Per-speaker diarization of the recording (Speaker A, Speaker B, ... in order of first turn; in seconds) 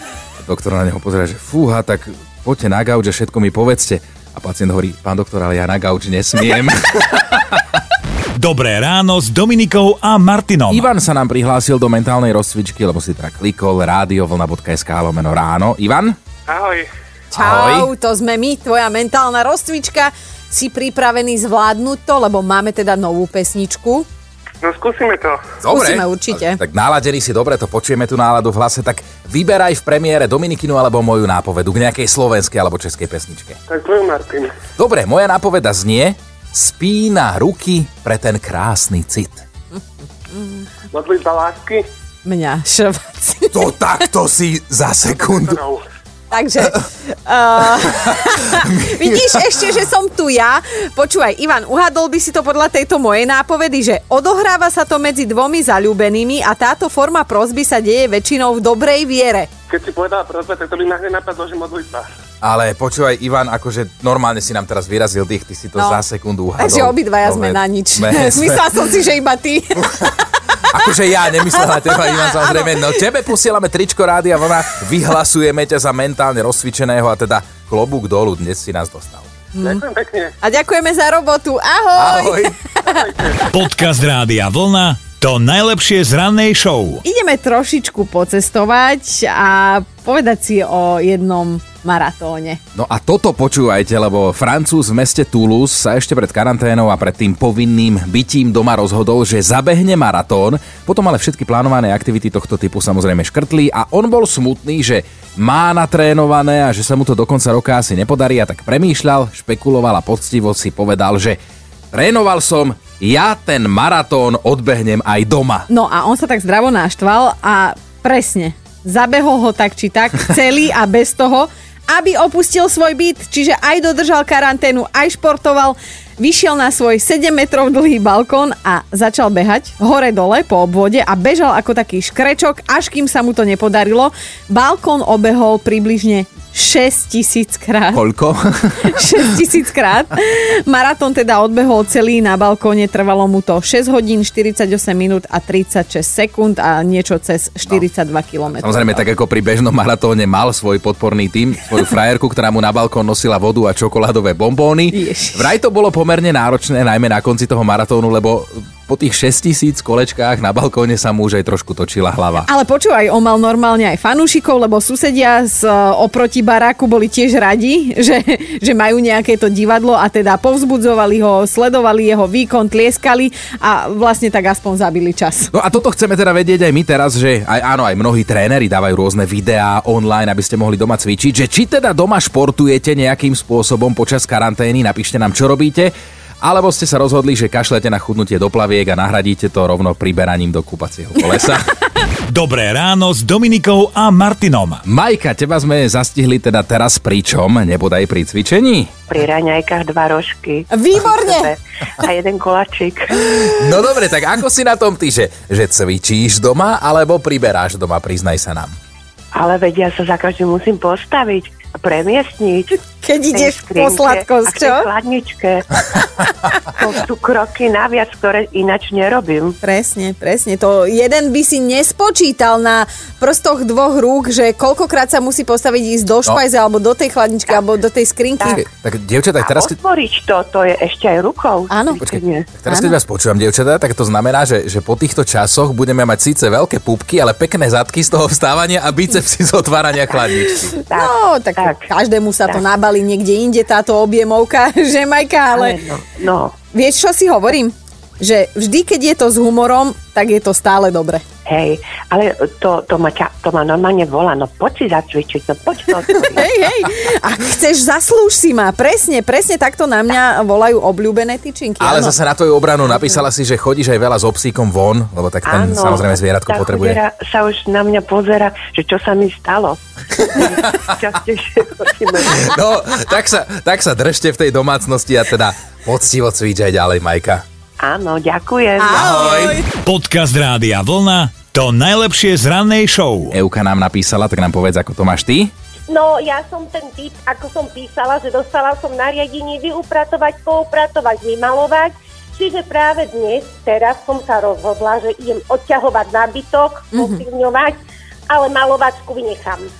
Speaker A: 0.4-7.6, 10.7-16.2, 17.3-17.9, 25.6-33.6, 34.8-39.4, 43.5-45.6, 49.0-49.3, 62.4-68.8, 70.7-79.3, 82.0-82.6, 92.7-111.4, 111.9-115.7, 137.9-139.3, 148.6-162.5, 175.5-191.7, 194.9-198.9, 203.3-208.7, 228.7-229.8, 232.0-240.7, 261.8-267.0, 270.4-270.7, 272.3-277.4, 278.9-279.6, 283.3-285.5
Speaker B: 8.3-10.9, 83.5-87.0, 192.3-194.8, 279.8-283.3
Speaker C: 16.5-16.9, 24.6-25.5, 33.7-34.5, 40.9-41.8, 45.3-45.8, 59.7-62.1, 79.6-80.3
Speaker D: 17.3-24.1, 25.7-26.6, 40.3-40.7, 42.2-43.7, 46.3-59.5, 65.8-66.0, 66.6-70.2, 71.6-72.7, 79.5-79.8, 80.4-83.3, 87.0-92.6, 115.7-138.0, 138.8-149.0, 154.9-155.5, 162.4-175.5, 200.7-201.5, 213.0-214.9, 219.6-228.6, 231.7-232.0, 232.7-232.9, 240.6-245.8, 246.7-251.2, 256.3-262.1, 278.8-279.7, 296.9-297.2
Speaker E: 199.1-203.2, 209.3-216.1, 216.7-219.6, 228.4-228.7, 229.4-232.5, 240.9-241.8, 245.5-246.6, 251.4-256.4, 265.4-272.5, 277.8-279.2
Speaker F: 285.9-297.8, 298.3-299.7